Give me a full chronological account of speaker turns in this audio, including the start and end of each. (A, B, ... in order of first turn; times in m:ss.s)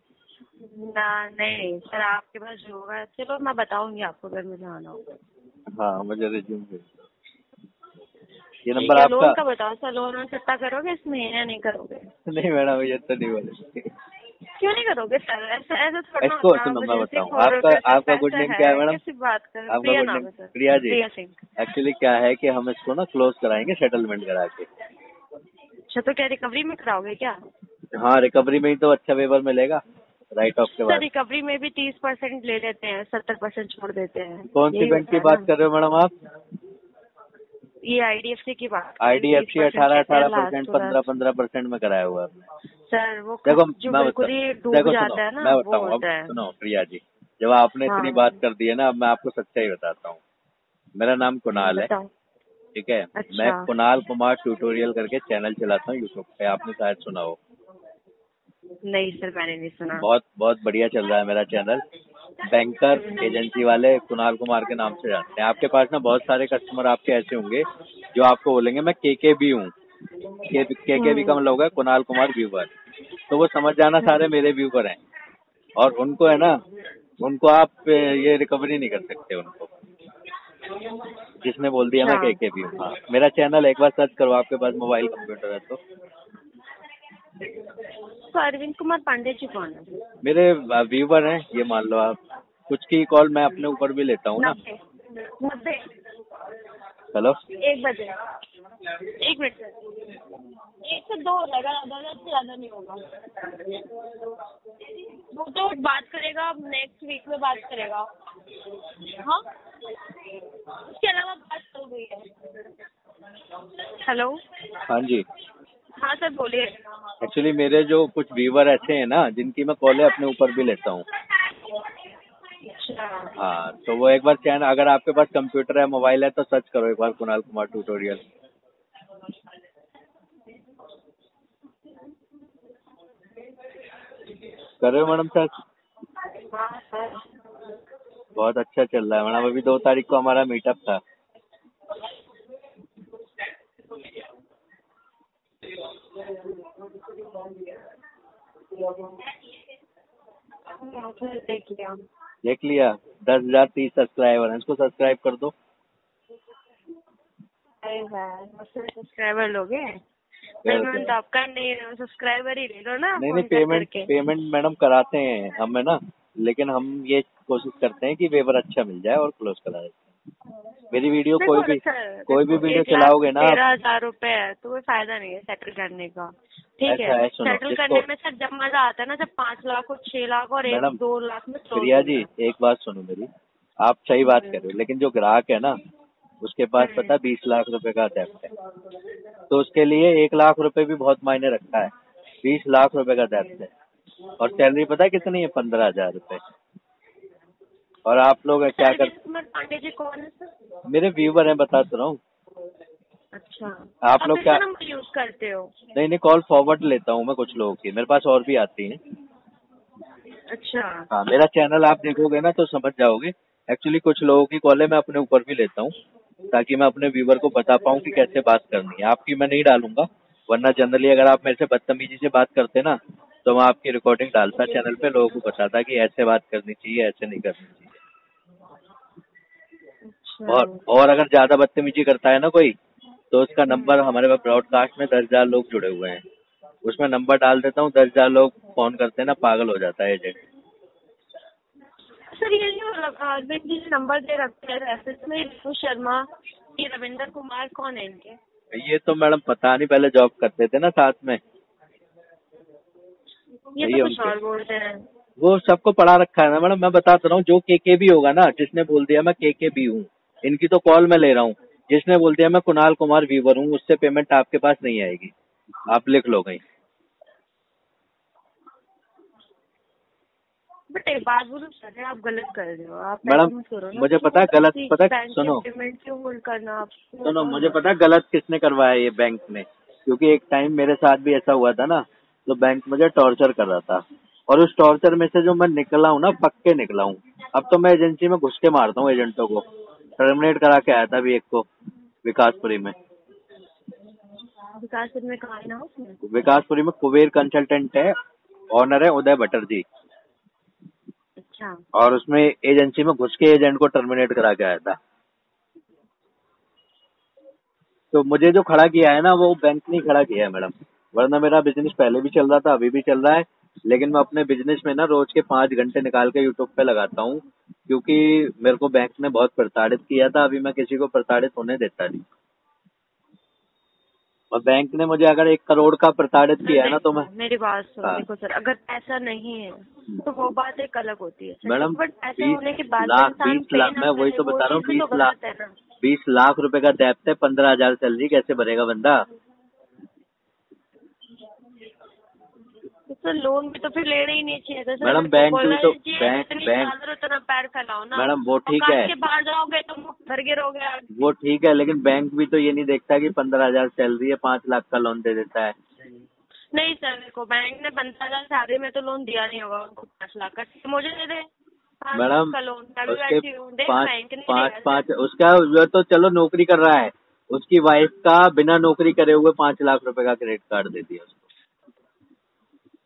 0:00.6-0:05.2 A
0:05.8-0:07.1 B
0:08.6-0:09.4 B
0:08.7-0:12.1 A
0:12.3-0:13.9 B
0:14.6-0:21.4 A
0:16.2-0:19.0 B
0:19.7-0:21.0 B
0:21.6-0:24.7 B
0:25.9-0:27.4 A
0:27.9-0:29.8 B
0:30.3-0:31.0 B
0:30.8-0:35.5 A
0:34.5-0:36.1 B
0:37.8-0:41.0 A
0:39.0-0:42.5 B
0:42.9-0:46.3 A
0:43.4-0:50.2 B
0:47.9-0:48.4 A
0:51.0-0:51.9 B
0:51.5-0:52.1 A
0:52.7-0:57.4 B
0:53.1-0:53.7 A
0:58.8-1:00.1 A
1:00.0-1:01.8 B
1:02.4-1:09.7 B
1:02.9-1:03.4 A
1:10.5-1:12.7 B
1:10.9-1:11.4 A
1:13.3-1:15.0 B
1:15.8-1:16.6 B
1:17.2-1:19.7 B
1:21.4-1:25.8 B
1:22.0-1:22.4 A
1:28.3-1:29.9 A
1:30.2-1:32.2 B
1:32.7-1:34.6 B
1:34.4-1:35.9 A
1:37.1-1:37.4 B
1:37.6-1:38.2 A
1:39.0-1:39.8 A
1:40.8-1:43.1 A
1:45.3-1:48.1 A
1:49.1-1:49.4 A
1:50.8-1:52.3 A
1:53.8-1:54.4 A
1:54.9-1:55.2 B
1:56.0-1:56.8 A
1:57.2-2:01.0 B
2:02.6-2:03.3 A
2:03.4-2:08.2 B
2:14.8-2:15.5 B
2:16.4-2:17.3 A
2:18.4-2:21.0 B
2:30.7-2:32.0 A
2:32.4-2:35.5 B
2:37.8-2:40.0 A
2:40.6-2:41.1 B
2:40.6-2:44.1 A
2:43.2-2:50.0 B
2:50.9-2:53.6 B
2:51.3-3:02.3 A
2:56.8-2:58.0 B
3:00.7-3:01.0 B
3:01.7-3:03.3 B
3:03.8-3:05.7 B
3:06.4-3:08.5 B
3:06.8-3:07.2 A
3:09.5-3:11.9 B
3:12.4-3:13.7 B
3:14.4-3:16.4 B
3:18.0-3:19.1 B
3:18.5-3:20.5 A
3:20.9-3:22.2 B
3:23.3-3:25.7 A
3:24.0-3:24.6 B
3:25.9-3:29.0 B
3:30.5-3:31.0 A
3:31.1-3:35.9 B
3:36.5-3:47.9 B
3:44.6-3:45.1 A
3:50.1-3:50.8 A
3:50.5-3:52.7 B
3:53.3-3:56.2 B
3:53.7-3:54.0 A
3:56.8-4:00.4 B
4:02.3-4:06.2 A
4:06.8-4:08.4 A
4:08.7-4:11.4 B
4:13.7-4:15.0 A
4:13.8-4:14.4 B
4:15.4-4:25.3 B
4:25.9-4:26.6 B
4:30.9-4:37.8 A
4:33.2-4:35.6 B
4:37.2-4:49.6 B
4:50.2-4:51.6 B
4:52.2-4:52.9 B
4:54.8-4:56.2 A
4:56.2-4:58.1 B
4:58.7-4:59.8 B
5:01.4-5:01.8 A
5:01.9-5:05.0 B
5:08.1-5:22.2 B
5:24.5-5:27.3 B
5:26.6-5:35.8 A
5:31.6-5:35.3 B
5:36.0-5:39.2 B
5:43.1-5:51.0 A
5:45.0-5:46.9 B
5:48.1-5:49.1 B
5:51.2-5:55.7 B
5:56.7-6:01.5 A
6:02.0-6:05.0 A
6:02.1-6:02.6 B
6:03.1-6:11.4 B